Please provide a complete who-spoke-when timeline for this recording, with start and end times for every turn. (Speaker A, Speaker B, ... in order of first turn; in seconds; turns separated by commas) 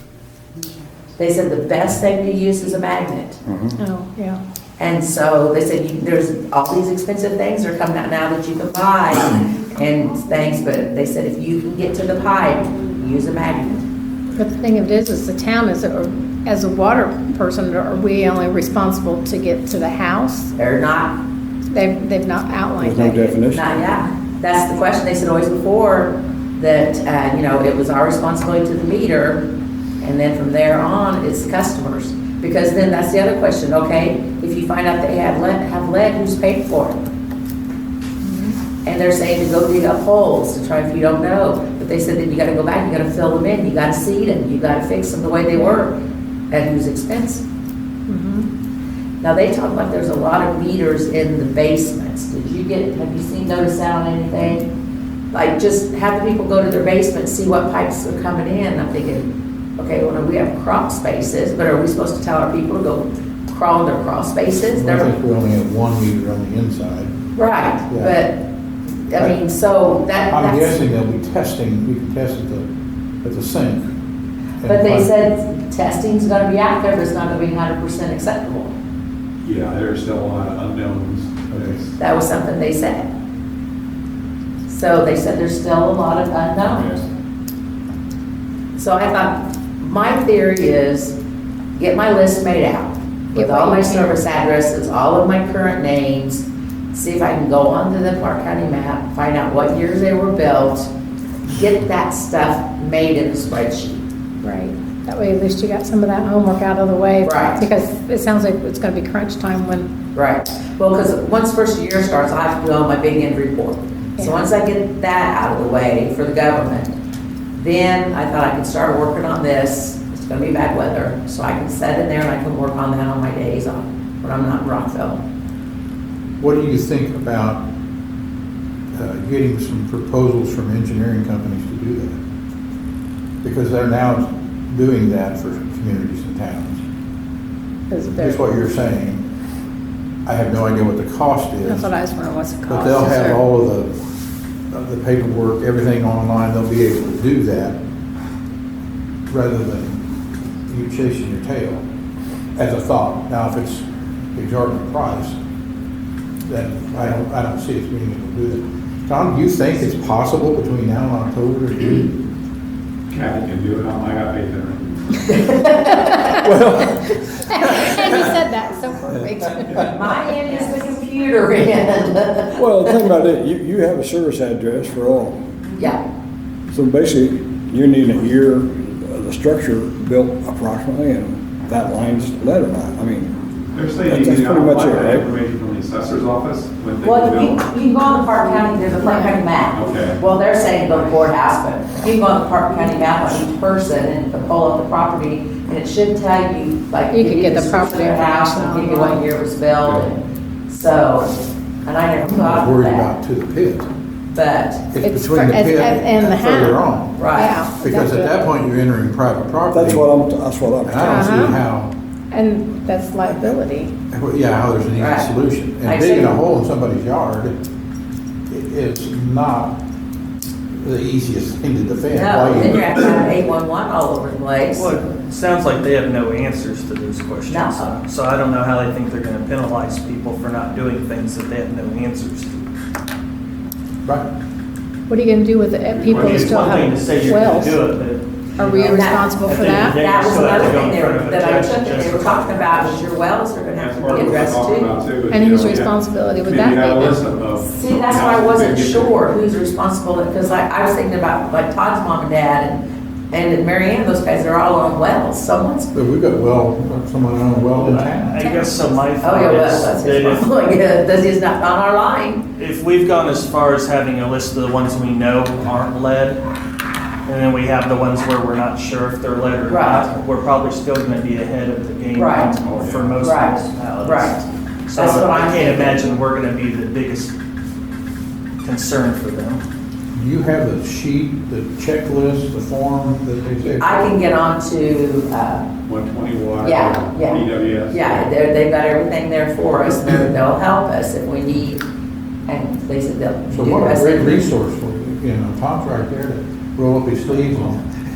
Speaker A: 1.2-3.4, Speaker B: 3.8-4.4, Speaker A: 4.8-13.8, Speaker B: 14.3-20.5, Speaker A: 20.6-21.2, Speaker B: 21.7-23.4, Speaker C: 22.9-23.6, Speaker A: 23.5-29.4, Speaker A: 30.0-37.0, Speaker B: 38.2-38.6, Speaker A: 38.8-45.9, Speaker B: 45.5-45.8, Speaker A: 46.5-47.4, Speaker B: 48.1-48.5, Speaker A: 49.2-54.7, Speaker A: 55.3-65.1, Speaker D: 64.7-67.1, Speaker A: 67.3-68.4, Speaker D: 67.9-68.2, Speaker A: 69.1-70.8, Speaker D: 70.3-72.7, Speaker D: 73.2-73.9, Speaker D: 74.6-75.1, Speaker A: 74.6-78.7, Speaker E: 79.4-81.9, Speaker D: 81.5-81.8, Speaker A: 82.0-83.1, Speaker A: 84.7-86.9, Speaker E: 86.6-87.0, Speaker A: 88.8-91.2, Speaker A: 91.8-100.9, Speaker B: 93.3-94.2, Speaker A: 101.5-104.0, Speaker B: 104.4-109.9, Speaker A: 107.2-107.6, Speaker A: 110.1-116.9, Speaker B: 114.2-114.5, Speaker A: 117.5-125.2, Speaker D: 126.4-127.6, Speaker D: 128.9-132.2, Speaker D: 133.4-136.8, Speaker B: 137.9-138.5, Speaker D: 138.1-139.2, Speaker D: 140.2-141.9, Speaker B: 141.7-143.4, Speaker D: 142.7-143.9, Speaker D: 144.7-147.8, Speaker D: 149.3-150.0, Speaker D: 150.7-151.8, Speaker D: 152.6-155.4, Speaker D: 156.4-162.2, Speaker E: 163.1-165.0, Speaker A: 165.3-166.5, Speaker B: 166.1-170.4, Speaker D: 169.1-169.8, Speaker A: 169.8-173.0, Speaker C: 172.6-175.3, Speaker C: 176.7-183.3, Speaker E: 183.7-187.6, Speaker C: 184.1-185.2, Speaker A: 187.0-201.3, Speaker E: 189.7-190.2, Speaker B: 197.1-199.2, Speaker E: 199.8-200.1, Speaker A: 201.8-203.1, Speaker D: 202.3-203.9, Speaker A: 204.3-204.9, Speaker D: 204.9-207.2, Speaker B: 205.0-208.5, Speaker A: 207.2-207.6, Speaker D: 207.8-210.1, Speaker C: 209.7-211.1, Speaker D: 210.8-211.9, Speaker B: 211.0-211.6, Speaker B: 212.3-213.9, Speaker D: 213.3-213.5, Speaker D: 214.1-217.5, Speaker A: 215.0-215.3, Speaker A: 215.8-216.4, Speaker D: 218.5-219.8, Speaker D: 220.8-223.0, Speaker A: 222.1-224.9, Speaker F: 224.7-232.7, Speaker A: 227.5-227.9, Speaker B: 235.1-237.8, Speaker E: 235.9-236.8, Speaker F: 236.0-243.2, Speaker B: 238.6-240.0, Speaker A: 238.8-244.9, Speaker E: 243.8-245.9, Speaker B: 245.3-247.2, Speaker E: 246.4-249.1, Speaker A: 247.6-255.9, Speaker D: 255.9-258.4, Speaker F: 257.7-260.5, Speaker A: 258.4-262.4, Speaker F: 262.6-266.4, Speaker F: 267.2-277.3, Speaker A: 269.7-270.1, Speaker A: 272.1-272.5, Speaker E: 272.6-273.2, Speaker A: 273.2-274.4, Speaker A: 274.9-276.1, Speaker F: 278.6-279.6, Speaker D: 280.1-283.9, Speaker A: 283.8-285.7, Speaker E: 285.8-288.2, Speaker A: 286.6-291.8, Speaker A: 292.5-294.5, Speaker D: 293.5-297.8